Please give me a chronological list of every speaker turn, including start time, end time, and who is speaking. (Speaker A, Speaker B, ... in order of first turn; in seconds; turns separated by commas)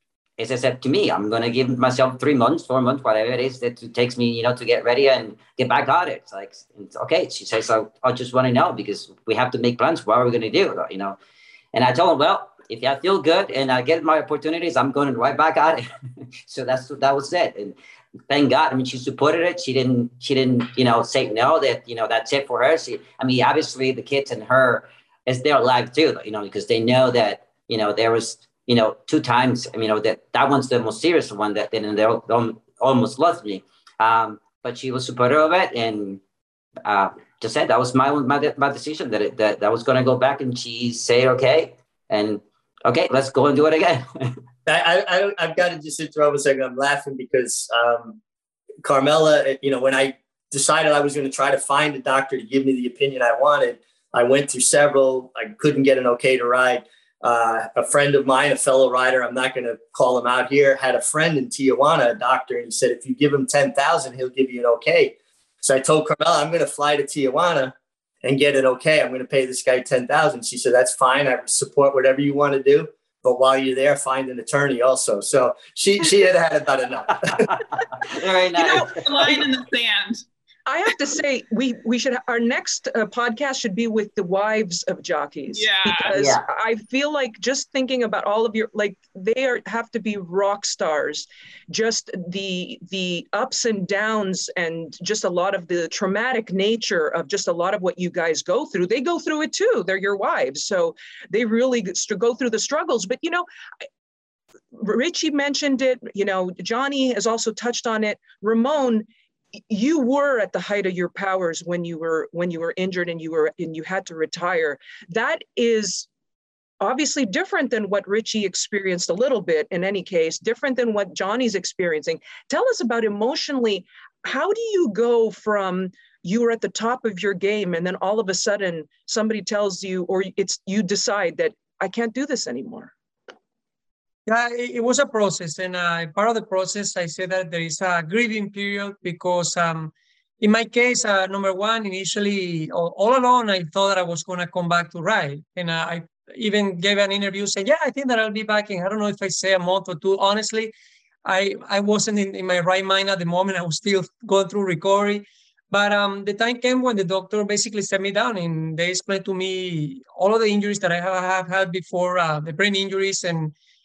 Speaker A: 0.4-11.2, Speaker A: 11.7-15.8, Speaker A: 16.4-17.8, Speaker A: 18.3-36.2, Speaker A: 36.9-44.4, Speaker B: 44.7-48.2, Speaker B: 48.8-77.5, Speaker A: 77.3-79.4, Speaker C: 78.6-79.4, Speaker D: 78.6-80.2, Speaker C: 80.7-103.5, Speaker D: 85.5-86.2, Speaker A: 86.1-86.4, Speaker C: 104.7-109.1, Speaker C: 109.7-116.1, Speaker C: 116.8-132.9, Speaker E: 134.3-150.7, Speaker E: 151.2-163.5